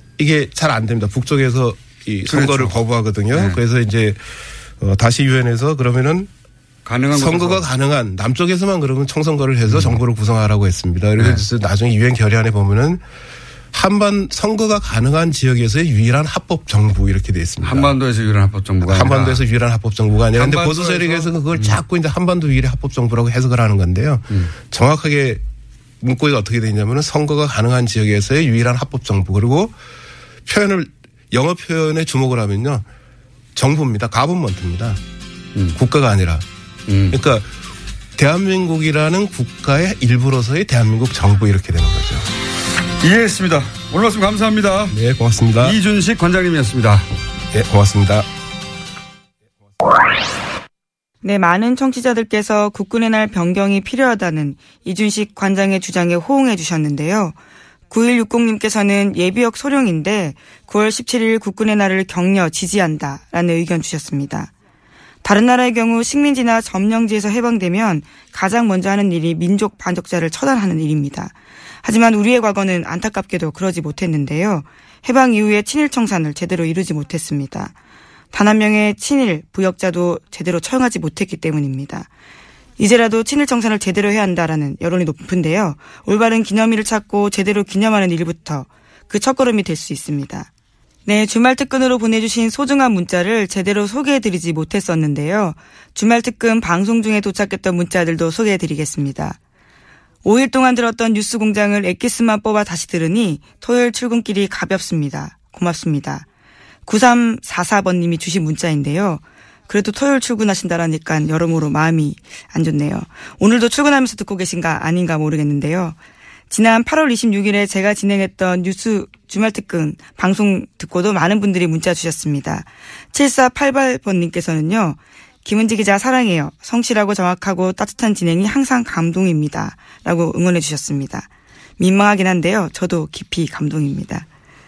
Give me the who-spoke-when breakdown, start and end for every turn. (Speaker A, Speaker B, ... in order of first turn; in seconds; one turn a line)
Speaker A: 0.2-4.2
Speaker B: 2.3-2.8
Speaker B: 3.3-3.6
Speaker A: 4.8-6.3
Speaker B: 6.9-7.7
Speaker A: 7.1-13.0
Speaker B: 9.7-10.0
Speaker B: 11.2-11.5
Speaker A: 13.7-18.0
Speaker B: 17.6-19.4
Speaker A: 18.8-25.4
Speaker B: 20.3-21.8
Speaker A: 26.0-29.8
Speaker A: 30.5-32.8
Speaker A: 33.6-35.0
Speaker A: 35.8-36.5
Speaker B: 36.9-37.2
Speaker A: 37.1-37.5
Speaker A: 38.2-42.3
Speaker B: 43.0-45.0
Speaker A: 44.9-45.8
Speaker B: 45.6-47.1
Speaker A: 47.5-48.3
Speaker C: 51.2-57.4
Speaker C: 57.9-64.5
Speaker C: 65.2-77.7
Speaker C: 78.3-82.1
Speaker C: 82.8-90.5
Speaker C: 91.1-99.4
Speaker C: 100.2-106.2
Speaker C: 106.9-116.0
Speaker C: 116.5-131.3
Speaker C: 131.8-134.3